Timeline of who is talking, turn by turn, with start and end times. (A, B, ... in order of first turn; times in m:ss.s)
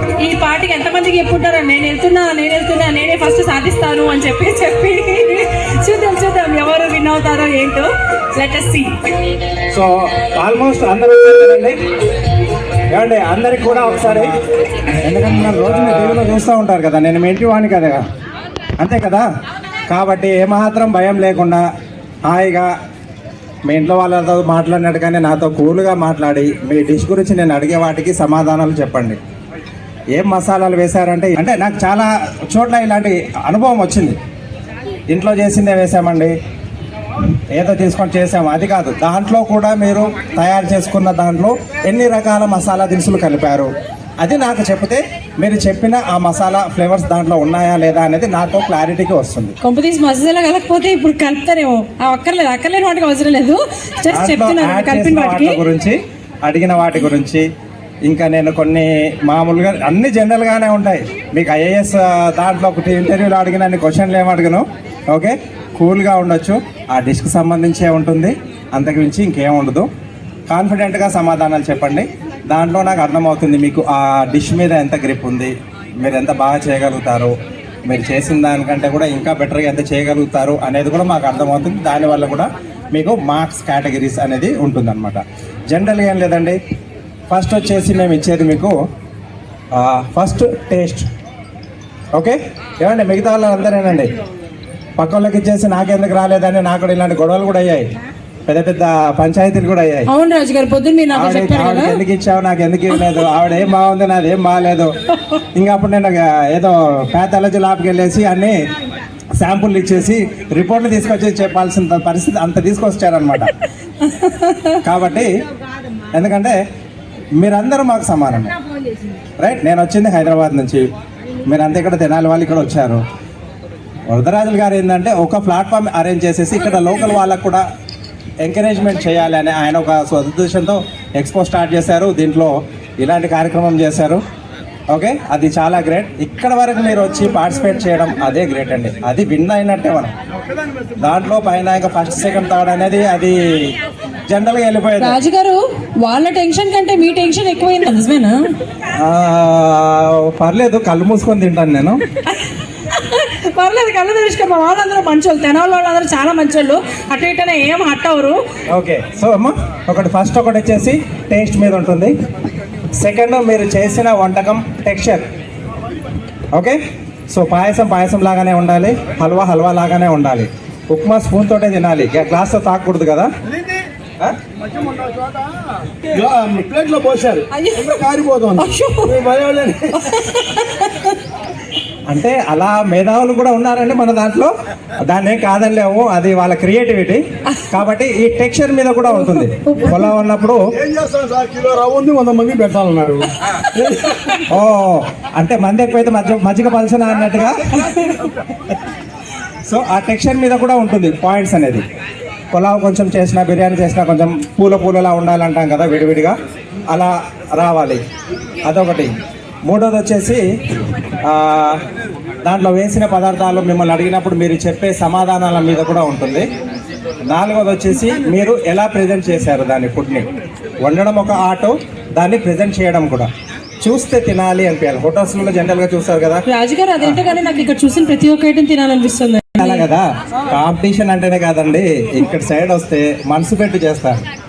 0:00.2-0:08.9 A
0:09.7-0:11.8 B
0:12.9-0:14.3 B
0:15.0-0:18.0 B
0:18.8-0:19.2 B
0:19.9-0:21.6 B
0:22.3-0:22.7 B
0:23.7-0:29.2 B
0:30.1-0:34.2 B
0:35.1-0:36.3 B
0:37.5-0:49.5 B
0:49.6-0:55.6 A
0:54.1-0:57.4 B
0:58.0-1:09.9 B
1:10.5-1:17.3 B
1:17.9-1:26.6 B
1:27.3-1:28.8 B
1:29.7-1:31.0 B
1:32.2-1:34.1 B
1:35.0-1:37.9 B
1:38.5-1:40.1 B
1:40.1-1:42.0 A
1:41.1-1:44.9 B
1:45.5-1:48.5 B
1:49.4-1:53.5 B
1:54.0-1:54.8 A
1:54.8-1:55.3 B
1:56.1-1:56.6 B
1:57.4-1:58.5 B
1:59.4-2:00.8 B
2:01.5-2:03.0 B
2:04.1-2:07.6 B
2:08.4-2:14.2 B
2:14.9-2:20.1 B
2:21.0-2:23.4 B
2:24.3-2:25.2 B
2:25.0-2:28.4 A
2:29.0-2:32.0 B
2:32.3-2:38.4 A
2:38.7-2:42.1 B
2:43.0-2:45.2 B
2:47.3-2:53.3 B
2:54.8-2:55.2 C
2:56.1-3:00.0 C
2:57.5-2:59.2 A
2:59.9-3:01.1 A
3:02.1-3:04.5 B
3:05.1-3:10.6 B
3:09.2-3:10.1 A
3:10.8-3:14.1 C
3:14.5-3:18.0 B
3:19.7-3:21.8 B
3:22.5-3:26.3 B
3:26.9-3:28.0 B
3:28.6-3:29.1 B
3:29.7-3:30.4 B
3:31.2-3:31.8 B
3:32.4-3:36.4 B
3:37.3-3:40.3 B
3:40.8-3:43.3 B
3:43.8-3:46.4 B
3:46.5-3:49.8 A
3:49.6-3:54.2 B